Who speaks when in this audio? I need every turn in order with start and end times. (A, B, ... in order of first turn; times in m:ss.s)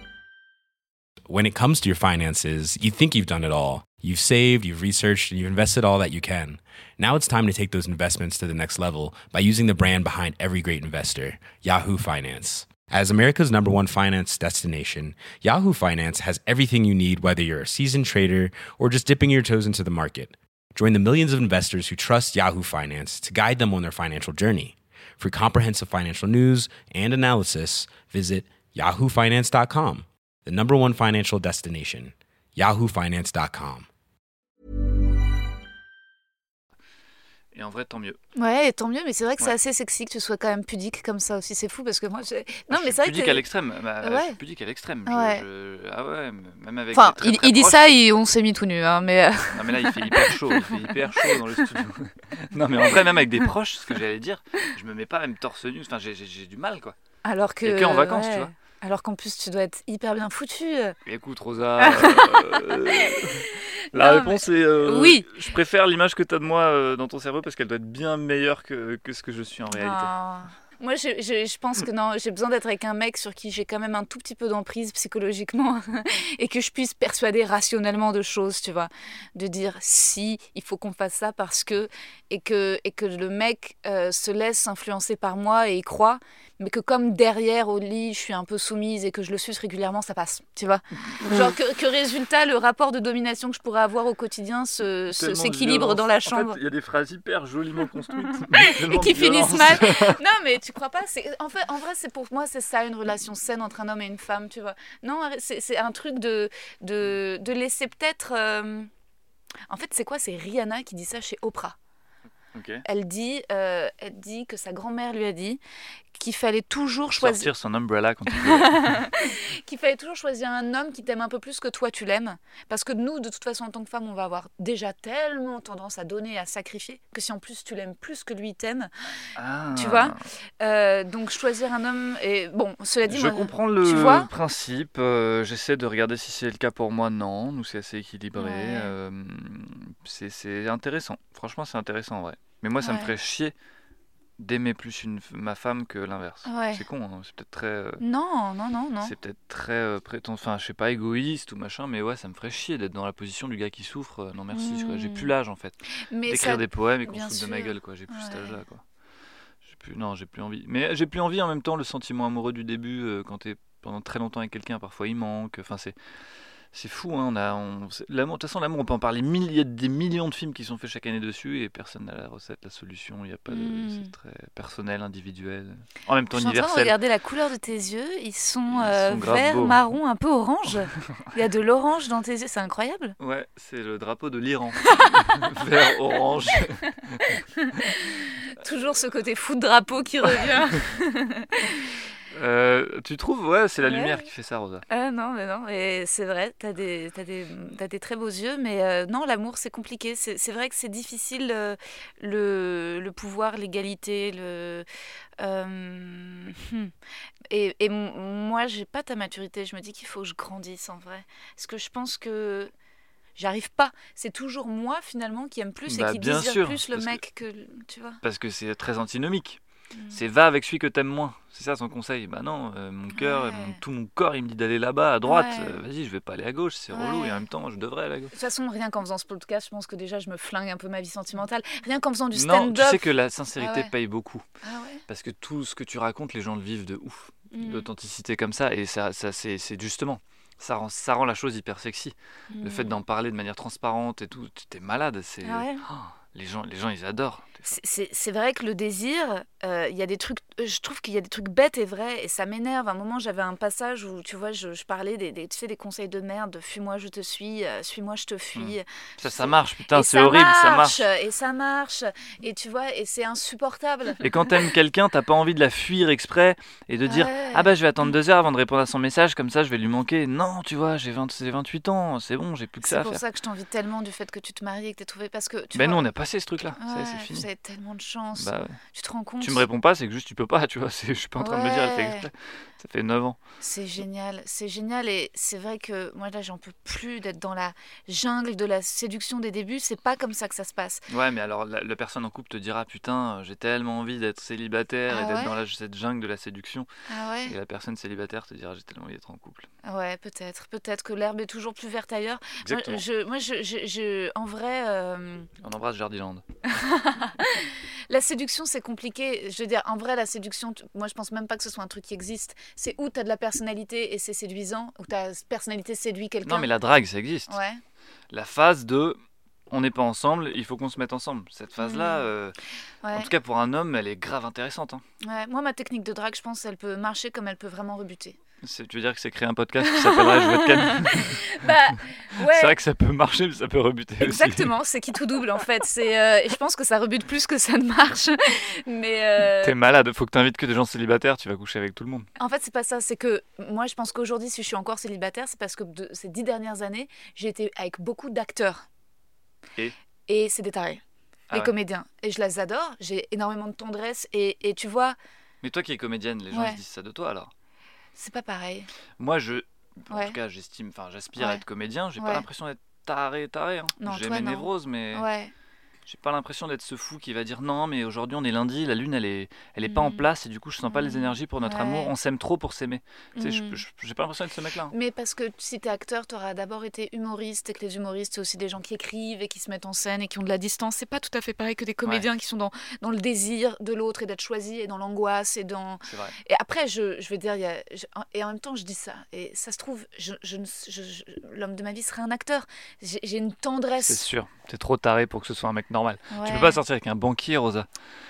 0:01.3-0:33.9 A
0:37.5-0:38.2 B
0:38.3-0:43.4 C
0:42.7-0:47.8 B
0:44.0-0:44.4 C
0:45.0-0:45.4 C
0:46.9-0:51.8 C
0:49.5-0:57.0 B
0:57.2-1:01.0 C
0:57.6-0:58.5 B
1:01.0-1:10.1 B
1:01.8-1:05.3 C
1:09.7-1:36.6 C
1:35.2-1:40.2 B
1:38.3-1:48.9 C
1:49.7-1:51.8 C
1:52.5-1:52.8 B
1:52.8-1:55.6 C
1:56.1-1:57.5 C
1:57.1-1:59.0 B
1:58.3-2:08.9 C
2:09.3-2:10.2 B
2:09.7-2:14.3 C
2:13.0-2:23.5 B
2:18.3-2:18.9 C
2:22.8-2:23.1 C
2:24.4-2:28.0 B
2:26.4-2:26.8 C
2:28.0-2:29.1 C
2:29.0-2:38.8 B
2:34.5-2:35.3 C
2:36.1-2:38.6 C
2:39.6-2:46.0 B
2:46.7-2:56.9 B
2:53.5-2:54.1 C
2:56.3-3:03.2 C
2:58.7-2:59.8 B
3:03.2-3:07.3 B
3:04.9-3:05.4 C
3:07.6-3:11.9 C
3:12.3-3:14.8 B
3:13.8-3:14.3 C
3:14.9-3:24.8 C
3:25.4-3:26.9 C
3:27.5-3:32.7 C
3:33.4-3:38.2 C
3:35.9-3:37.2 B
3:38.2-3:48.3 B
3:40.0-3:40.2 C
3:43.1-3:43.8 C
3:45.2-3:45.8 C
3:46.9-3:47.4 C
3:48.3-3:53.9 C
3:52.3-3:54.4 B
3:54.6-3:55.0 C
3:55.1-4:07.7 B
3:57.5-3:57.9 C
4:02.5-4:02.9 C
4:05.4-4:05.8 C
4:07.7-4:24.2 C
4:18.6-4:21.1 B
4:24.2-4:33.2 B
4:27.0-4:27.7 C
4:32.8-4:36.1 C
4:35.7-4:37.5 B
4:36.7-4:39.7 C
4:38.4-4:38.8 B
4:39.4-4:43.4 B
4:41.4-4:42.3 C
4:43.6-4:51.0 C
4:51.1-4:56.9 B
4:55.1-4:55.5 C
4:57.1-4:57.5 C
4:57.4-4:59.7 B
4:59.8-5:05.5 C
5:02.6-5:03.0 B
5:05.6-5:06.4 B
5:06.7-5:16.7 C
5:16.4-5:17.6 B
5:17.5-5:17.8 C
5:18.3-5:22.6 B
5:21.8-5:22.3 C
5:23.0-5:23.3 C
5:23.1-5:25.0 B
5:25.2-5:28.4 C
5:28.6-5:31.4 B
5:29.8-5:32.7 C
5:32.3-5:34.7 B
5:34.2-5:39.8 C
5:39.6-5:42.3 B
5:42.4-5:48.9 C
5:50.3-5:55.2 C
5:55.6-5:57.5 B
5:56.5-5:56.8 C
5:58.2-5:58.9 C
5:59.2-6:05.3 B
6:00.1-6:00.4 C
6:01.4-6:01.6 C
6:02.2-6:02.4 C
6:04.0-6:05.5 C
6:06.0-6:14.9 B
6:09.8-6:10.3 C
6:10.9-6:12.1 C
6:13.4-6:13.8 C
6:14.9-6:34.2 C
6:26.0-6:26.4 B
6:34.0-6:37.9 B
6:36.3-6:36.8 C